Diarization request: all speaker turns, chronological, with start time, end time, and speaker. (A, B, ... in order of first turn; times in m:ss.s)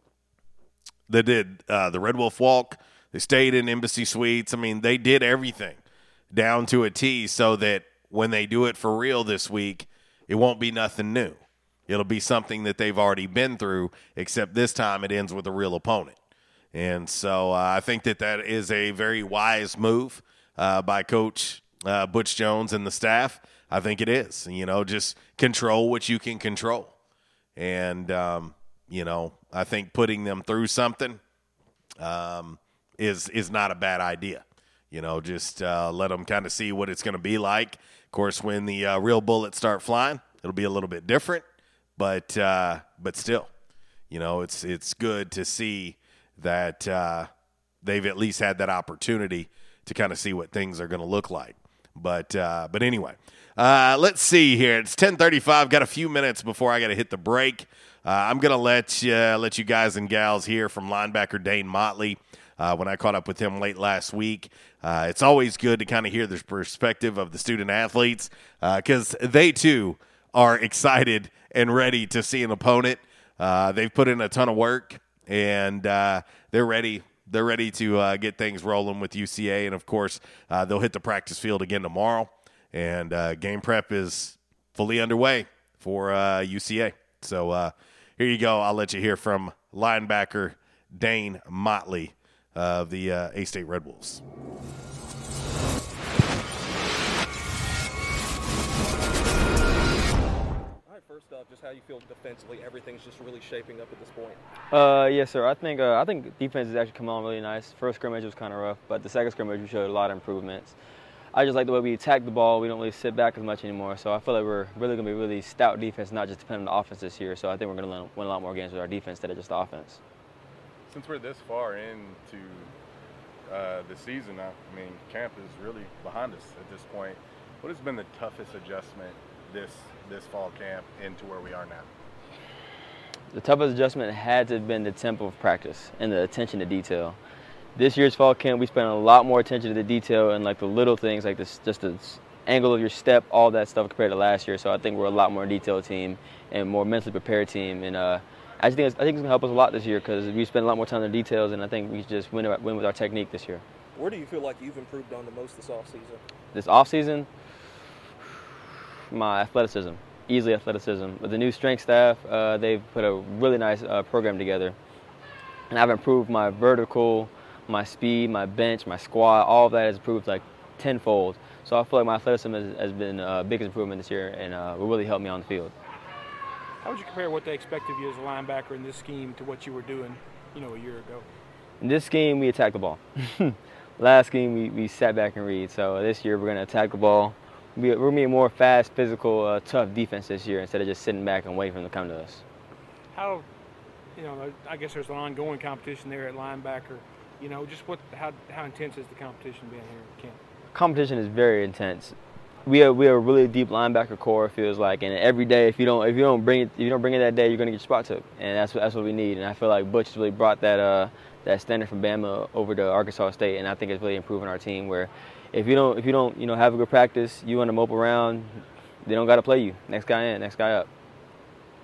0:01.1-0:16.2 A
0:16.7-0:26.9 A
0:27.6-0:31.2 A
0:32.0-0:41.5 A
0:42.0-0:43.5 A
0:44.1-0:47.3 A
0:47.8-1:34.2 A
1:40.9-1:44.4 B
1:44.7-1:50.8 C
1:51.3-2:00.0 C
2:00.9-2:02.7 D
2:03.5-2:11.9 D
2:13.3-2:17.2 C
2:17.8-2:33.6 C
2:34.0-2:36.2 B
2:36.5-2:37.3 C
2:39.1-2:44.8 C
2:45.7-2:55.7 C
2:56.8-3:01.3 E
3:01.8-3:12.4 C
3:13.1-3:13.5 E
3:14.2-3:20.4 E
3:20.7-3:22.2 C
3:22.7-3:40.9 C